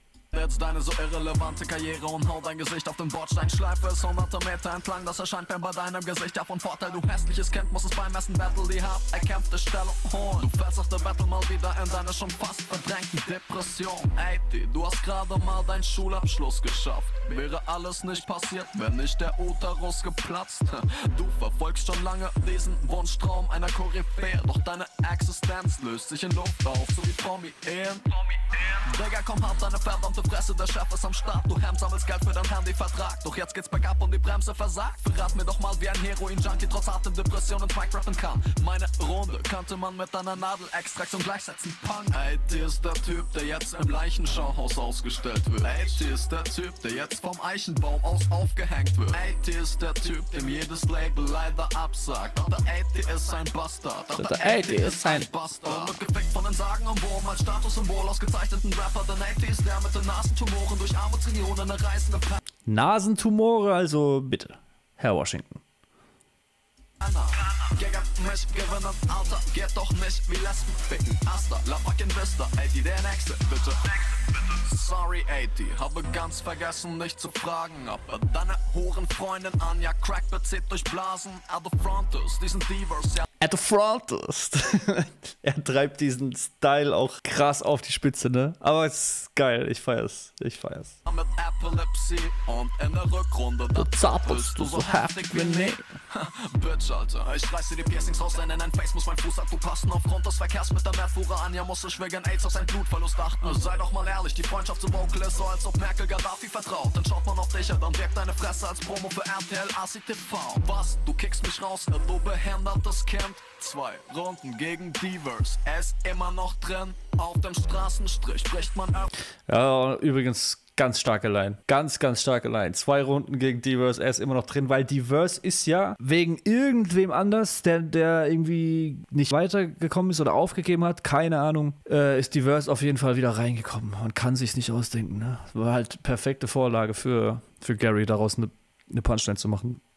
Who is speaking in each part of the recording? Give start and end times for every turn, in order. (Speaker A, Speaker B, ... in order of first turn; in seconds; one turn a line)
Speaker A: 0.3-62.4
Speaker B: 54.1-55.3
Speaker B: 62.7-65.6
Speaker A: 67.0-83.2
Speaker B: 83.4-91.0
Speaker A: 91.1-119.1
Speaker B: 93.7-95.8
Speaker B: 119.5-139.8